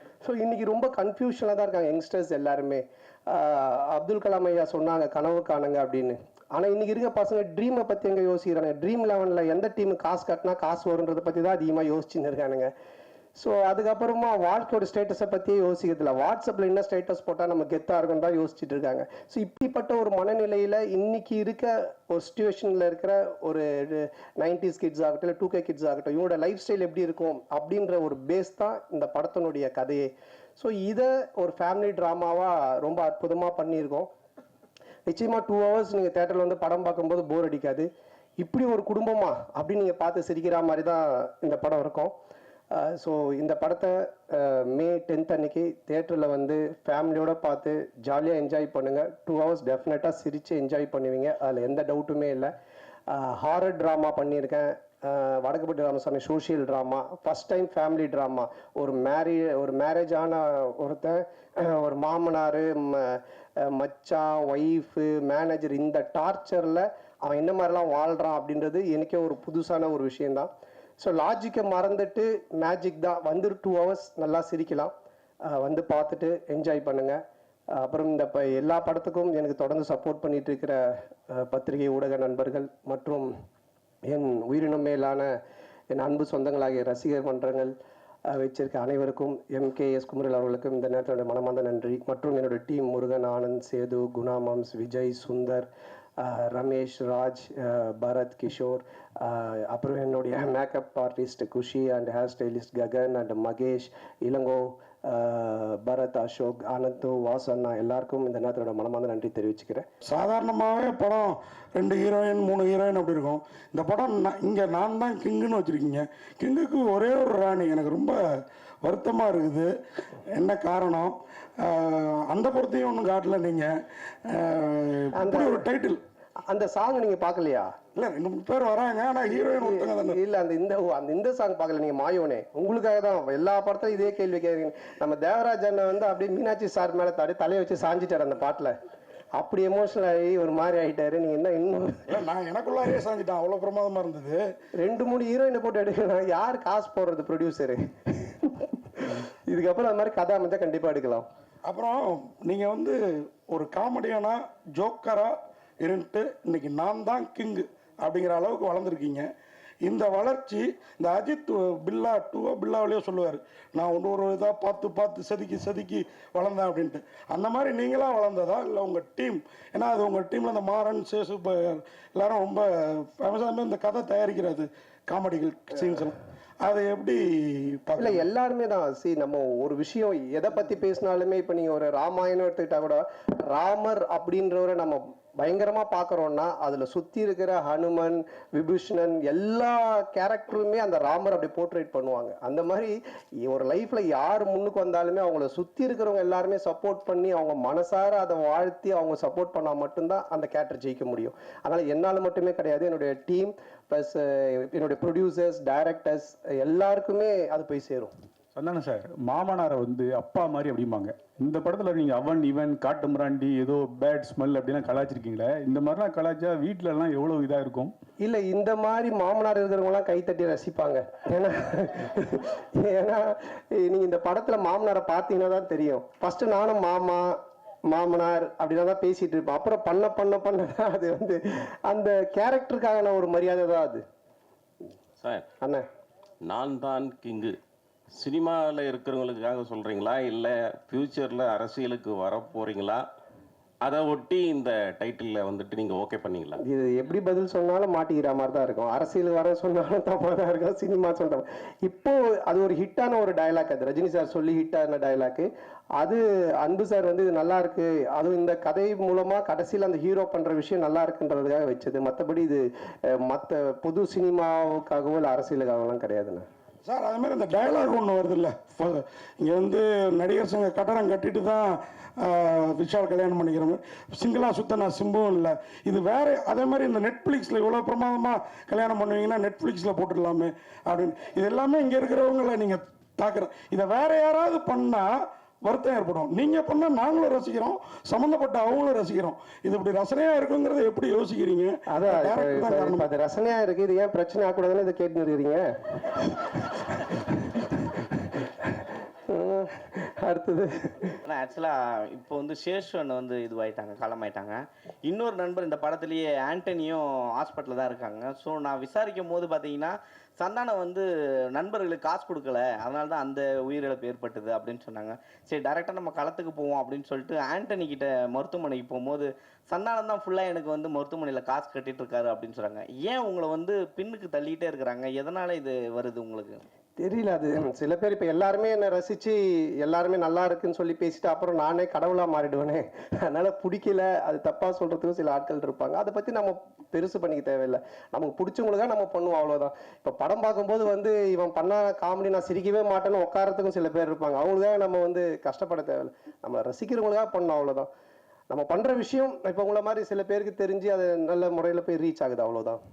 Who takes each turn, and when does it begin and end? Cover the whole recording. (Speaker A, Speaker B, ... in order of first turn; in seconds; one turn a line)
Speaker A: 0.2-12.7
Speaker A: 13.3-34.1
Speaker A: 35.1-42.1
Speaker A: 42.7-52.5
Speaker A: 53.1-74.9
Speaker A: 75.5-77.2
Speaker A: 77.7-83.3
Speaker A: 84.1-85.3
Speaker A: 85.9-87.7
Speaker A: 88.3-109.9
Speaker B: 110.0-119.7
Speaker B: 120.3-123.7
Speaker B: 124.3-126.0
Speaker A: 125.1-125.7
Speaker A: 126.4-127.8
Speaker B: 127.9-130.2
Speaker A: 129.3-138.8
Speaker A: 139.3-142.2
Speaker B: 142.1-144.4
Speaker A: 144.8-151.3
Speaker B: 151.7-159.3
Speaker B: 159.8-178.2
Speaker A: 178.0-208.1
Speaker C: 208.5-217.9
Speaker A: 218.2-234.0
Speaker D: 235.2-235.4
Speaker A: 235.6-235.8
Speaker D: 236.4-237.6
Speaker D: 238.1-243.0
Speaker D: 243.8-246.6
Speaker A: 246.6-266.5
Speaker B: 266.8-293.1
Speaker A: 291.9-301.2
Speaker E: 301.2-326.6
Speaker A: 327.0-347.9
Speaker A: 348.5-352.8